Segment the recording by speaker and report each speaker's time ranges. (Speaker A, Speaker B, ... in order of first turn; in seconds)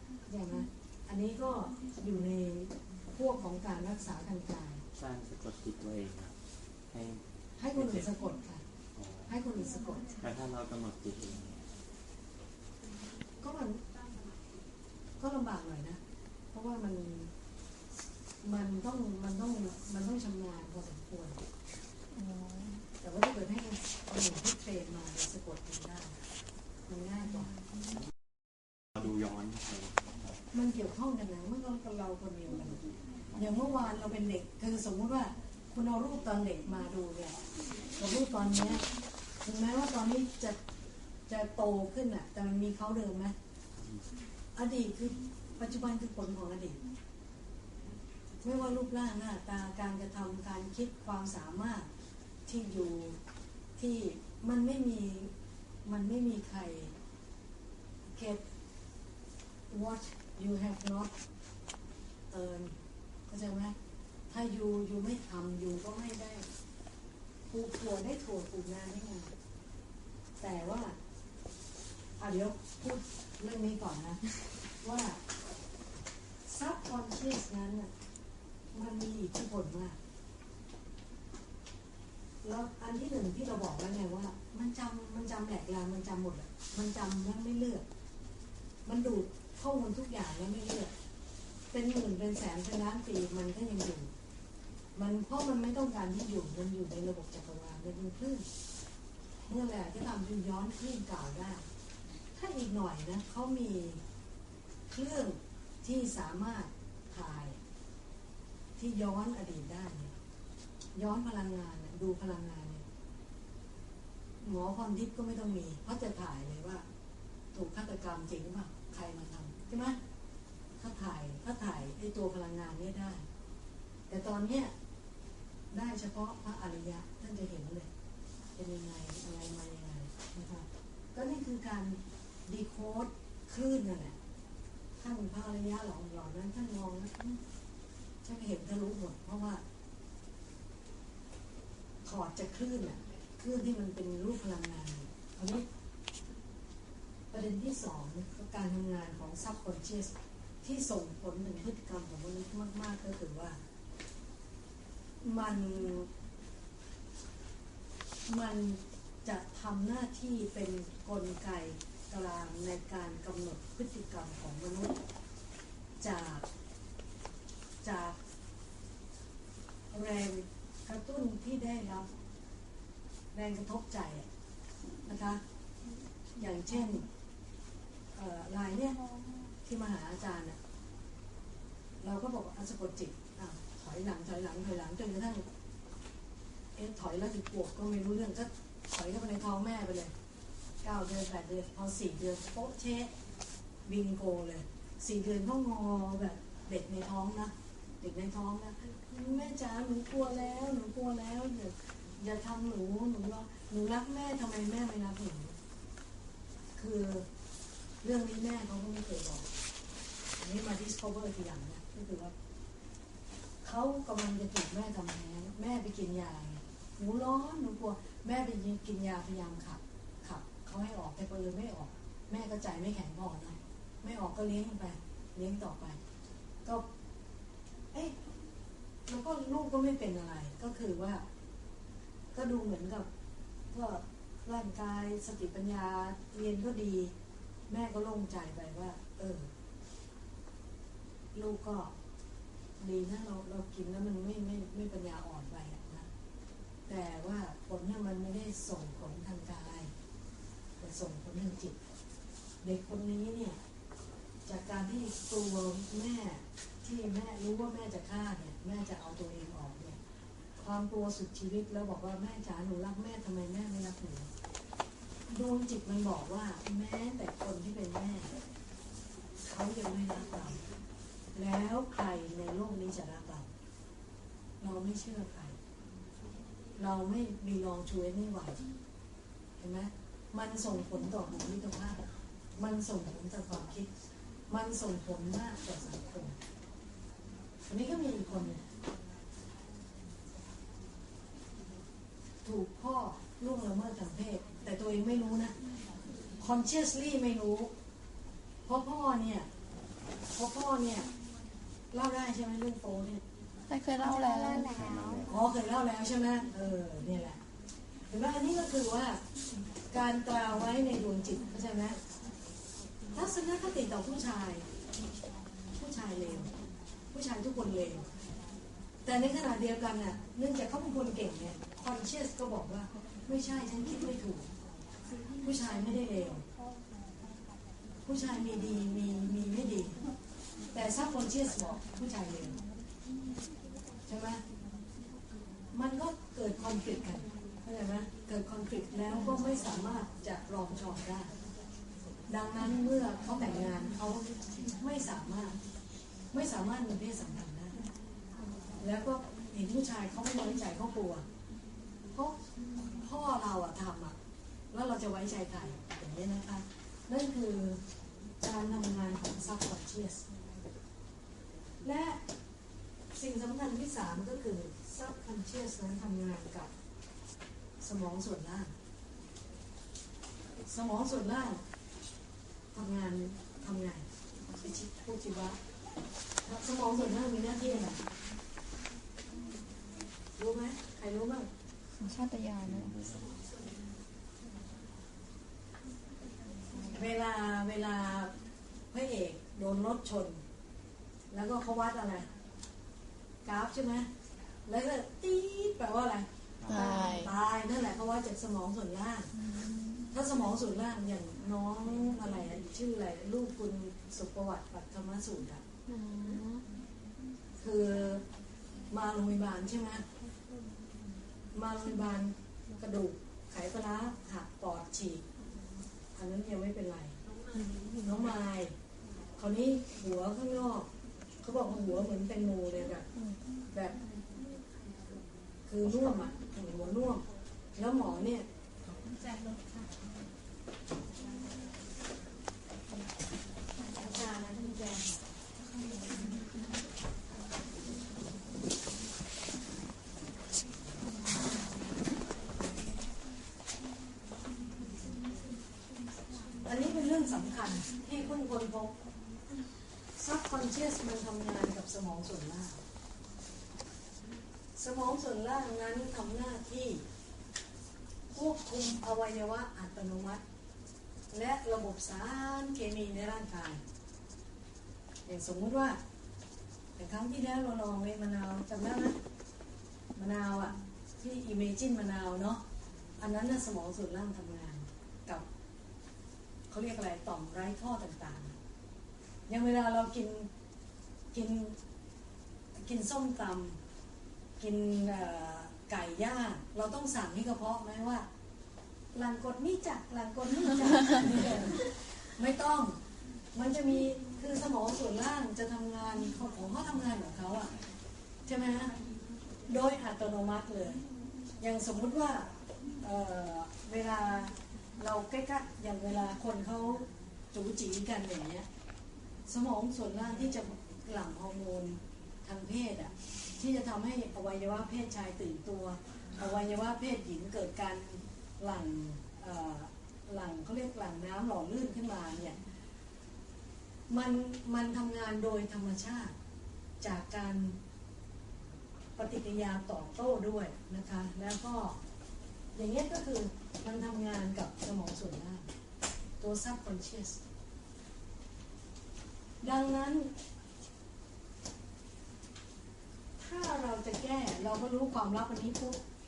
Speaker A: 0.2-4.8, 7.6-8.6, 9.3-10.2, 13.4-13.8, 15.2-16.0, 16.5-17.3, 18.4-21.4, 23.0-26.1, 26.9-27.5, 30.5-32.8, 33.3-37.4, 38.0-38.8, 39.4-40.6, 41.3-43.3, 44.5-46.8, 48.4-51.9, 52.5-53.2, 53.8-55.3, 55.8-56.9, 58.1-58.4, 59.7-61.1, 62.3-62.8, 63.3-63.7, 64.3-66.5, 67.5-69.3, 70.4-71.0, 72.2-74.2, 74.8-75.2, 76.4-77.9, 78.7-80.0, 82.4-87.8, 88.8-90.9, 91.7-94.1, 95.0-98.5, 99.5-101.6, 102.3-104.0, 104.9-107.6, 108.8-110.1, 110.9-112.8, 114.4-116.8, 117.5-120.0, 120.8-123.2, 124.1-124.7, 125.7-127.9, 128.6-134.2, 135.0-137.4, 138.2-139.6, 142.0-145.7, 147.3-153.6, 155.2-156.1, 158.3-165.0, 166.0-166.4, 167.8-168.2, 169.9-172.1, 173.3-174.3, 175.1-175.4, 176.4-177.1, 178.2-178.9, 179.6-180.6, 182.0-185.4, 186.8-190.1, 190.8-193.1, 193.8-205.6, 206.8-207.2, 208.0-209.5, 210.4-212.3, 213.6-226.0, 229.1-231.2, 232.3-233.1, 233.7-237.1, 237.7-239.5, 241.3-241.9, 242.8-246.1, 246.9-249.9, 250.8-251.8, 252.6-253.6, 254.4-260.0, 260.6-264.3, 265.3-268.3, 269.4-270.6, 271.3-273.5, 274.6-275.6, 276.8-278.6, 279.6-282.0, 282.6-283.9, 284.5-286.4, 287.7-288.6, 292.4-295.5, 296.4-297.7, 298.7-299.5, 300.3-301.1, 301.9-303.2, 305.3-307.4, 308.1-309.2, 309.9-312.0, 313.1-314.6, 315.8-316.5, 317.1-318.1, 319.0-324.5, 325.4-326.4, 328.0-329.9, 330.7-332.6, 334.1-334.4, 335.7-341.3, 342.3-345.6, 346.3-347.8, 348.8-351.2, 353.0-354.1, 354.7-357.8, 358.4-360.2, 361.8-362.2, 363.1-366.7, 367.8-368.7, 370.6-371.6, 372.7-374.1, 374.6-375.6, 376.4-378.0, 380.4-381.5, 386.9-388.3, 388.9-390.4, 391.3-392.2, 393.4-394.1, 394.6-399.3, 400.1-405.6, 407.6-408.2, 408.9-410.0, 411.5-415.2, 416.1-417.2, 418.0-418.7, 419.4-420.9, 421.4-423.1, 425.7-427.2, 427.8-428.4, 434.1-434.9, 446.6-448.9, 450.2-452.8, 454.8-457.0, 458.3-460.4, 461.3-463.8, 465.3-466.0, 467.0-469.2, 470.1-472.6, 473.2-475.5, 476.7-478.6, 479.5-480.5, 481.3-481.8, 482.8-483.8, 484.6-488.2, 489.1-492.9, 493.5-497.7, 498.4-498.9, 499.6-501.0, 501.6-508.6, 509.5-522.6, 524.1-526.3, 527.0-527.8, 529.1-532.0, 532.7-535.7, 536.4-537.4, 539.6-540.3, 543.4-546.0
Speaker B: 4.9-6.4, 6.9-7.2, 7.7-8.1, 8.9-9.3, 10.2-11.7, 28.9-30.1, 304.7-305.3, 382.6-383.3
Speaker C: 22.1-22.8, 303.7-304.9, 382.0-382.9, 396.7-397.3, 405.9-406.6, 417.6-417.9, 428.9-429.8